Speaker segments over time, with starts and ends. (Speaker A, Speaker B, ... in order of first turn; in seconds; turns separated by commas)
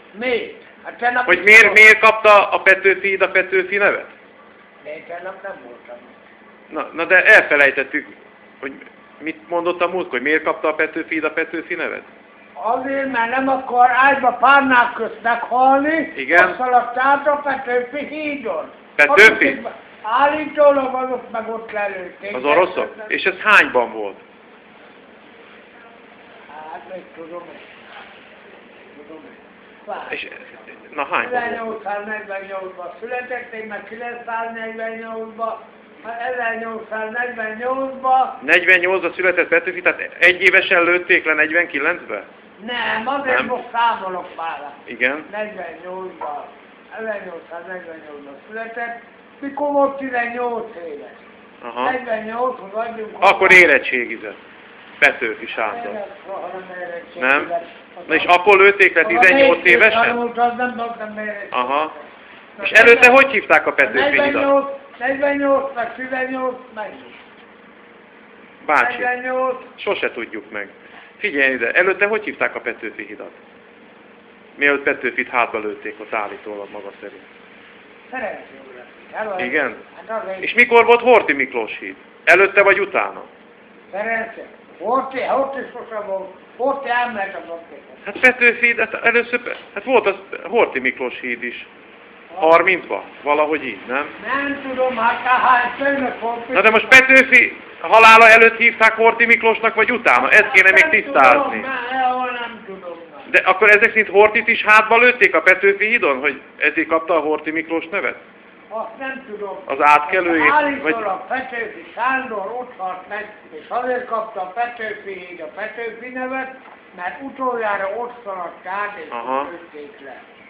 Speaker A: 0.1-1.9, Speaker B: 1.3-4.1, Speaker A: 4.8-6.2, Speaker B: 6.7-12.1, Speaker A: 12.6-23.1, Speaker B: 16.1-16.6, Speaker B: 19.0-19.6, Speaker B: 22.3-24.2, Speaker A: 26.5-27.7, Speaker A: 28.9-30.3, Speaker B: 30.1-31.7, Speaker A: 31.2-38.4, Speaker B: 38.4-42.3, Speaker A: 42.6-51.2, Speaker B: 43.2-43.5, Speaker B: 44.9-45.3, Speaker B: 51.6-52.0, Speaker A: 51.8-53.7, Speaker B: 53.2-54.4, Speaker B: 55.0-56.0, Speaker A: 55.6-58.3, Speaker B: 57.2-57.5, Speaker B: 58.1-60.2, Speaker A: 59.0-62.0, Speaker B: 61.5-61.9, Speaker A: 62.6-63.3, Speaker B: 62.6-64.5, Speaker A: 63.8-67.2, Speaker B: 68.6-69.1, Speaker A: 68.8-69.7, Speaker B: 69.8-73.4, Speaker B: 74.6-77.2, Speaker A: 78.1-80.5, Speaker B: 79.4-79.8, Speaker B: 80.4-83.3, Speaker A: 83.9-88.0, Speaker B: 88.0-91.7, Speaker A: 92.3-92.7, Speaker B: 92.4-94.1, Speaker A: 94.2-97.0, Speaker B: 96.5-101.7, Speaker A: 100.2-103.3, Speaker B: 103.3-108.2, Speaker A: 108.7-120.2, Speaker B: 109.7-111.1, Speaker B: 119.1-119.5